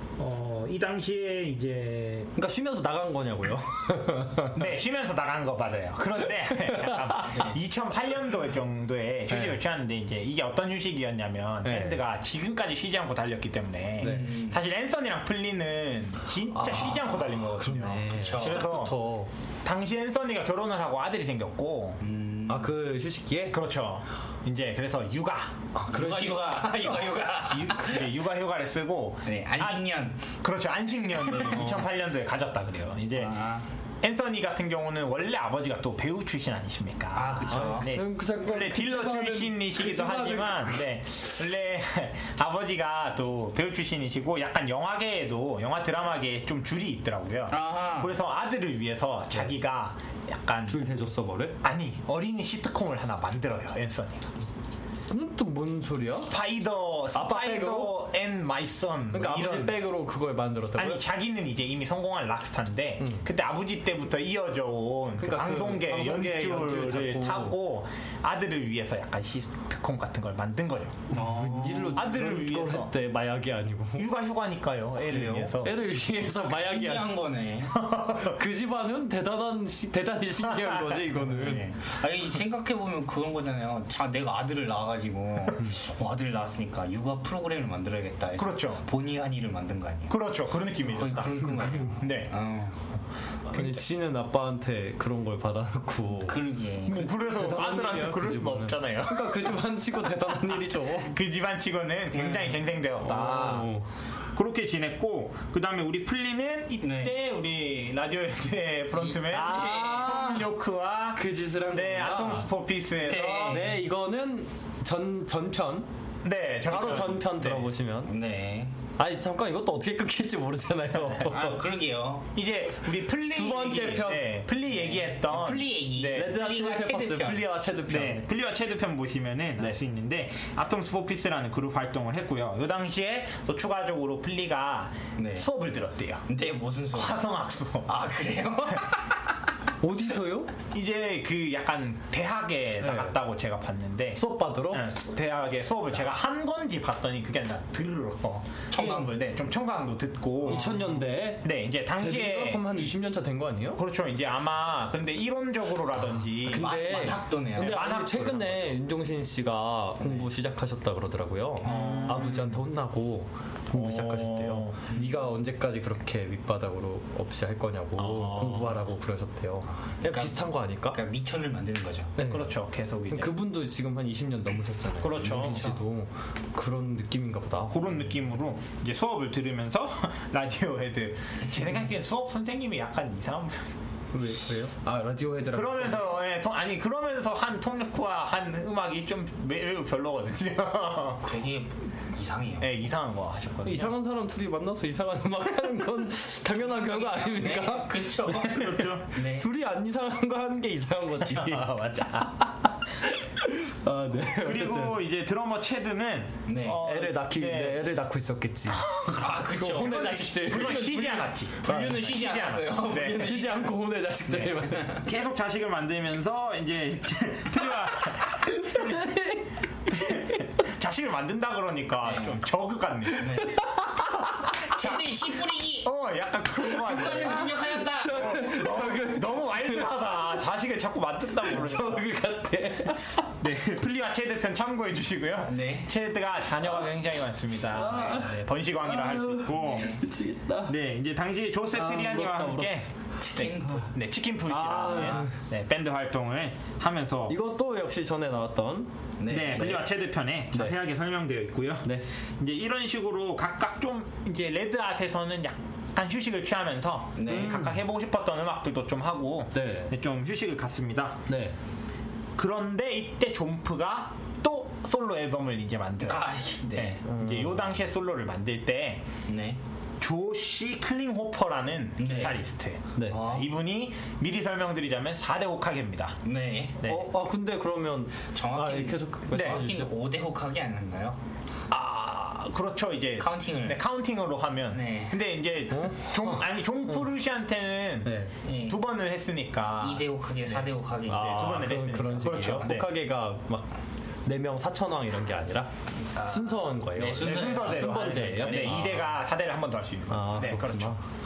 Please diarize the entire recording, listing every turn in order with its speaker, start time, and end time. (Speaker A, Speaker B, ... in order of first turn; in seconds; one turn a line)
Speaker A: 0.2-2.3
Speaker B: 2.4-4.6
Speaker A: 4.5-19.0
Speaker B: 6.7-7.3
Speaker B: 9.3-9.6
Speaker B: 11.6-12.0
Speaker B: 14.0-14.3
Speaker C: 14.0-14.6
Speaker B: 16.5-19.3
Speaker C: 18.1-18.7
Speaker A: 19.6-22.0
Speaker C: 22.0-22.7
Speaker B: 22.5-23.6
Speaker A: 23.5-25.5
Speaker B: 25.7-26.6
Speaker C: 25.9-28.1
Speaker A: 27.4-29.8
Speaker C: 29.2-30.3
Speaker A: 30.4-33.4
Speaker C: 31.1-31.8
Speaker C: 33.2-33.6
Speaker A: 34.0-50.9
Speaker C: 37.1-37.9
Speaker B: 37.5-40.8
Speaker C: 47.5-48.1
Speaker B: 50.7-51.6
Speaker A: 51.6-54.3
Speaker B: 55.1-56.3
Speaker A: 56.1-59.8
Speaker B: 57.1-58.0
Speaker B: 59.1-61.0
Speaker A: 60.8-71.1
Speaker B: 63.0-63.2
Speaker B: 65.2-67.6
Speaker C: 71.1-72.0
Speaker B: 71.1-74.1
Speaker A: 71.9-72.9
Speaker A: 74.0-75.8
Speaker C: 75.0-75.6
Speaker B: 75.6-77.1
Speaker C: 76.4-77.8
Speaker A: 77.7-78.4
Speaker B: 78.2-81.6
Speaker A: 80.4-81.0
Speaker C: 81.1-90.2
Speaker A: 88.3-88.8
Speaker A: 90.1-92.3
Speaker C: 90.8-92.8
Speaker B: 93.5-101.1
Speaker A: 93.5-93.8
Speaker C: 96.2-97.0
Speaker A: 96.8-99.5
Speaker A: 100.5-103.7
Speaker C: 102.1-102.6
Speaker B: 103.0-103.9
Speaker A: 104.3-113.7
Speaker C: 106.8-107.1
Speaker C: 109.0-110.2
Speaker B: 109.3-110.5
Speaker B: 111.1-112.5
Speaker C: 113.0-113.8
Speaker B: 113.4-115.9
Speaker A: 116.2-117.7
Speaker B: 116.7-118.1
Speaker C: 118.0-118.8
Speaker B: 119.0-121.6
Speaker C: 121.2-122.3
Speaker A: 122.3-126.3
Speaker B: 123.3-124.3
Speaker C: 124.7-127.5
Speaker B: 126.1-128.2
Speaker A: 127.9-136.2
Speaker C: 135.2-135.5
Speaker C: 136.3-137.3
Speaker A: 136.9-137.9
Speaker C: 137.8-139.3
Speaker B: 139.8-140.5
Speaker A: 140.7-150.8
Speaker B: 142.8-143.2
Speaker B: 144.2-144.9
Speaker C: 148.7-149.1
Speaker C: 150.4-150.9
Speaker B: 150.5-153.8
Speaker A: 151.4-152.9
Speaker A: 153.8-156.7
Speaker B: 156.4-171.0
Speaker C: 156.5-157.9
Speaker A: 157.5-158.7
Speaker C: 160.0-160.3
Speaker C: 161.6-162.3
Speaker A: 161.6-162.6
Speaker A: 163.7-164.8
Speaker C: 164.9-165.2
Speaker A: 167.9-168.8
Speaker C: 170.0-172.2
Speaker B: 172.2-172.5
Speaker A: 172.3-173.4
Speaker B: 173.1-178.0
Speaker A: 175.0-175.8
Speaker C: 175.3-175.8
Speaker A: 177.7-183.7
Speaker B: 184.1-186.2
Speaker A: 185.5-191.3
Speaker C: 191.2-192.7
Speaker A: 192.6-193.9
Speaker B: 193.6-198.6
Speaker C: 196.6-199.5
Speaker A: 198.3-199.2
Speaker B: 199.3-201.7
Speaker A: 201.2-202.7
Speaker B: 203.0-205.0
Speaker A: 204.2-207.8
Speaker C: 206.5-206.8
Speaker B: 206.8-211.0
Speaker A: 208.7-213.3
Speaker C: 209.1-213.8
Speaker B: 211.6-212.1
Speaker B: 212.8-215.0
Speaker C: 214.5-215.0
Speaker A: 215.0-219.1
Speaker B: 218.3-220.3
Speaker A: 219.9-223.5
Speaker C: 222.0-222.4
Speaker C: 223.1-223.7
Speaker B: 223.4-224.2
Speaker A: 224.3-225.0
Speaker C: 224.6-225.9
Speaker A: 225.8-232.1
Speaker C: 226.6-228.7
Speaker B: 227.6-230.2
Speaker B: 231.4-233.3
Speaker A: 233.4-240.0
Speaker C: 235.4-235.9
Speaker B: 237.7-240.7
Speaker C: 239.5-240.0
Speaker A: 240.7-247.4
Speaker B: 241.7-242.9
Speaker C: 243.2-243.9
Speaker B: 244.5-245.3
Speaker C: 244.8-245.3
Speaker B: 247.3-248.9
Speaker C: 249.2-249.8
Speaker A: 249.3-261.2
Speaker B: 249.6-249.8
Speaker C: 257.1-257.7
Speaker B: 257.3-257.8
Speaker B: 259.5-259.9
Speaker B: 261.3-261.5
Speaker A: 262.4-269.1
Speaker C: 266.0-267.0
Speaker B: 267.0-267.7
Speaker C: 269.3-269.6
Speaker A: 270.0-276.2
Speaker C: 272.0-272.4
Speaker C: 273.1-273.5
Speaker C: 276.2-276.8
Speaker A: 276.8-277.1
Speaker B: 276.8-279.9
Speaker C: 278.3-281.2
Speaker A: 279.3-279.6
Speaker A: 281.7-292.9
Speaker C: 283.2-283.8
Speaker C: 284.7-285.2
Speaker B: 285.7-287.0
Speaker B: 288.0-288.3
Speaker C: 288.4-288.8
Speaker C: 289.8-291.5
Speaker B: 291.1-293.7
Speaker B: 294.2-299.0
Speaker C: 296.1-299.1
Speaker A: 297.2-300.9
Speaker B: 300.1-301.0